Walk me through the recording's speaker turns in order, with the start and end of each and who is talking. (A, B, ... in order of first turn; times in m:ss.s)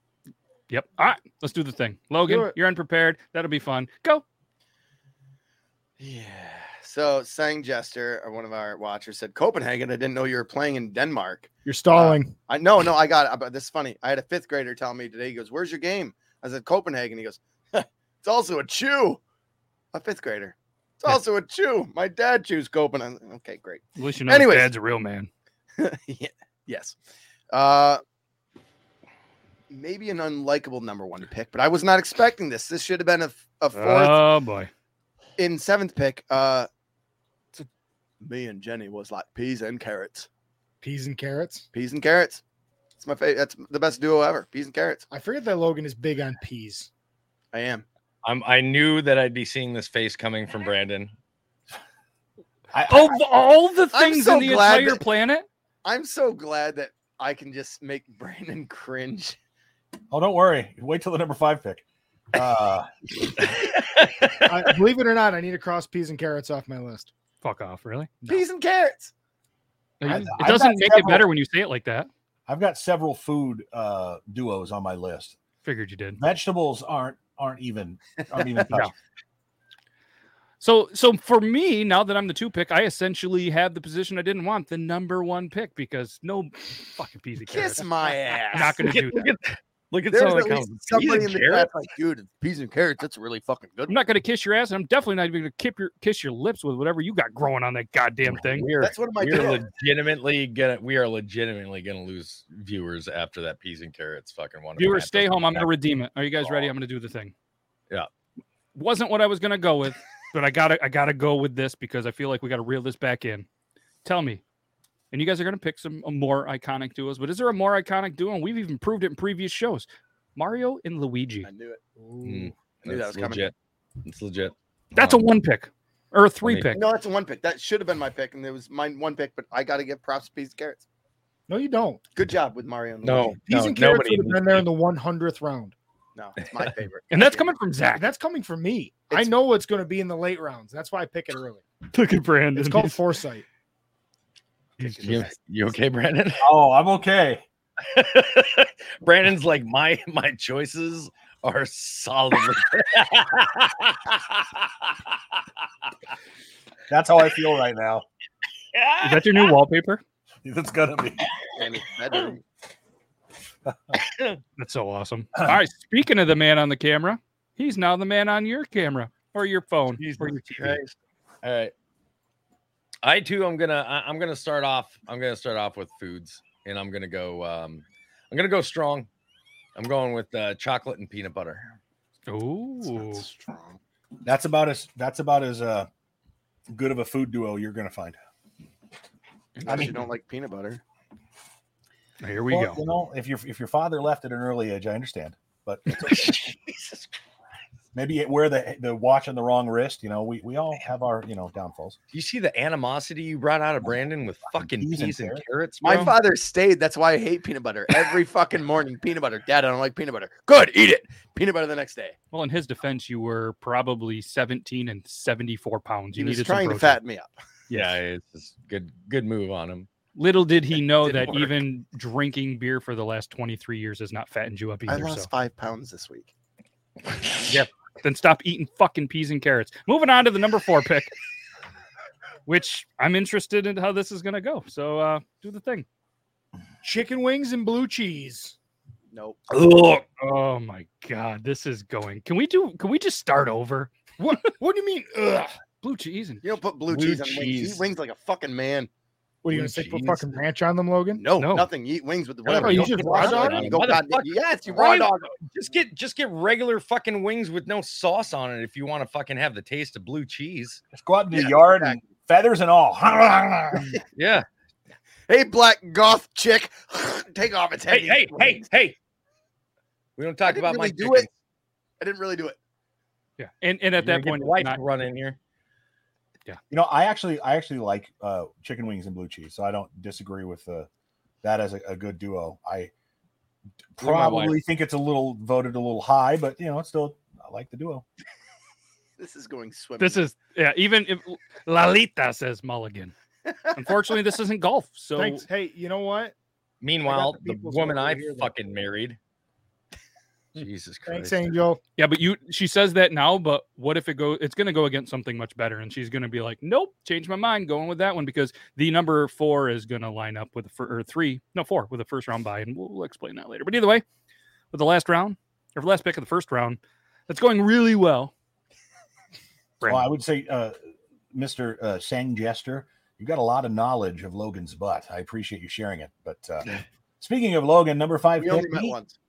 0:00.7-0:04.2 A
0:02.2-0:02.5 B
0:06.0-0:19.2 C
0:11.6-0:12.4 B
0:19.9-0:24.7 C
0:24.0-0:25.3 A
0:25.8-0:27.0 C
0:27.5-0:28.0 C
0:29.7-0:34.2 C
0:33.7-0:34.7 A
0:35.4-0:36.7 C
0:38.2-0:40.3 C
0:40.8-0:41.7 B
0:41.7-0:42.4 C
0:43.0-0:45.1 C
0:45.1-0:46.9 B
0:47.5-0:47.8 C
0:48.2-0:51.1 D
0:52.7-0:53.1 E
0:52.9-0:55.4 A
0:53.9-0:55.0 C
0:55.8-0:59.4 C
1:00.1-1:02.9 E
1:03.8-1:04.7 D
1:04.4-1:07.1 B
1:07.4-1:08.1 A
1:08.3-1:09.1 C
1:10.0-1:12.1 A
1:10.0-1:10.3 B
1:10.0-1:11.3 E
1:12.5-1:15.4 E
1:15.6-1:16.2 A
1:16.2-1:18.9 E
1:20.6-1:27.9 A
1:27.5-1:28.8 C
1:28.4-1:29.3 A
1:28.8-1:31.7 D
1:30.1-1:34.0 C
1:33.9-1:38.7 A
1:38.3-1:45.7 D
1:38.8-1:39.6 C
1:44.8-1:47.3 A
1:48.7-1:53.5 A
1:54.0-1:54.4 A
1:55.1-2:01.5 A
2:01.4-2:01.8 C
2:02.0-2:02.5 B
2:02.2-2:05.2 D
2:02.8-2:03.5 C
2:04.9-2:06.8 A
2:06.4-2:06.7 D
2:06.7-2:10.8 C
2:11.5-2:12.0 B
2:12.2-2:13.4 C
2:13.0-2:14.7 D
2:13.5-2:15.7 B
2:16.2-2:17.5 C
2:17.1-2:18.1 A
2:18.0-2:21.6 B
2:21.9-2:23.0 A
2:22.5-2:23.4 B
2:24.8-2:25.2 A
2:25.0-2:26.5 D
2:26.4-2:27.4 E
2:27.8-2:34.9 D
2:36.9-2:38.0 E
2:38.7-2:39.5 D
2:39.0-2:40.0 A
2:40.4-2:41.3 E
2:41.6-2:42.4 C
2:43.7-2:44.0 E
2:44.0-2:44.4 D
2:44.6-2:50.8 A
2:50.0-2:51.7 D
2:53.0-2:59.1 D
2:59.8-3:01.7 D
3:02.3-3:03.2 A
3:02.8-3:03.8 C
3:04.2-3:05.9 E
3:06.7-3:08.2 E
3:09.6-3:10.8 C
3:09.6-3:10.0 E
3:12.2-3:12.8 A
3:12.5-3:16.3 E
3:16.0-3:17.0 D
3:17.9-3:22.0 E
3:22.1-3:26.2 D
3:24.5-3:25.4 E
3:25.8-3:32.1 C
3:32.3-3:37.0 A
3:36.1-3:37.3 C
3:37.7-3:38.0 A
3:37.7-3:39.9 D
3:40.2-3:45.3 A
3:44.9-3:46.3 C
3:48.0-3:51.1 A
3:52.4-3:55.8 A
3:56.8-3:58.6 B
3:59.1-3:59.4 C
3:59.5-4:04.5 A
4:04.2-4:05.6 B
4:05.8-4:06.6 A
4:06.4-4:08.9 C
4:06.9-4:07.8 D
4:09.4-4:11.2 B
4:09.5-4:10.4 D
4:11.1-4:15.3 C
4:11.4-4:11.7 A
4:12.4-4:20.8 D
4:12.5-4:13.8 B
4:12.5-4:13.6 A
4:20.9-4:24.0 E
4:21.3-4:22.0 C
4:24.2-4:24.4 D
4:25.3-4:28.7 C
4:27.9-4:29.0 D
4:30.2-4:31.3 D
4:30.4-4:31.3 C
4:32.0-4:32.6 C
4:33.4-4:34.8 A
4:34.0-4:35.4 D
4:36.7-4:40.9 E
4:41.4-4:42.9 E
4:44.0-4:48.0 E
4:44.0-4:44.6 D
4:49.2-4:50.2 C
4:50.0-4:53.1 A
4:53.7-4:55.5 A
4:55.2-4:56.3 B
4:56.8-4:59.2 D
4:57.0-4:58.5 B
5:00.6-5:01.6 D
5:01.1-5:01.8 B
5:02.0-5:14.0 A
5:14.7-5:18.3 A
5:19.8-5:20.1 A
5:19.8-5:20.7 E
5:21.3-5:29.0 E
5:28.4-5:29.1 C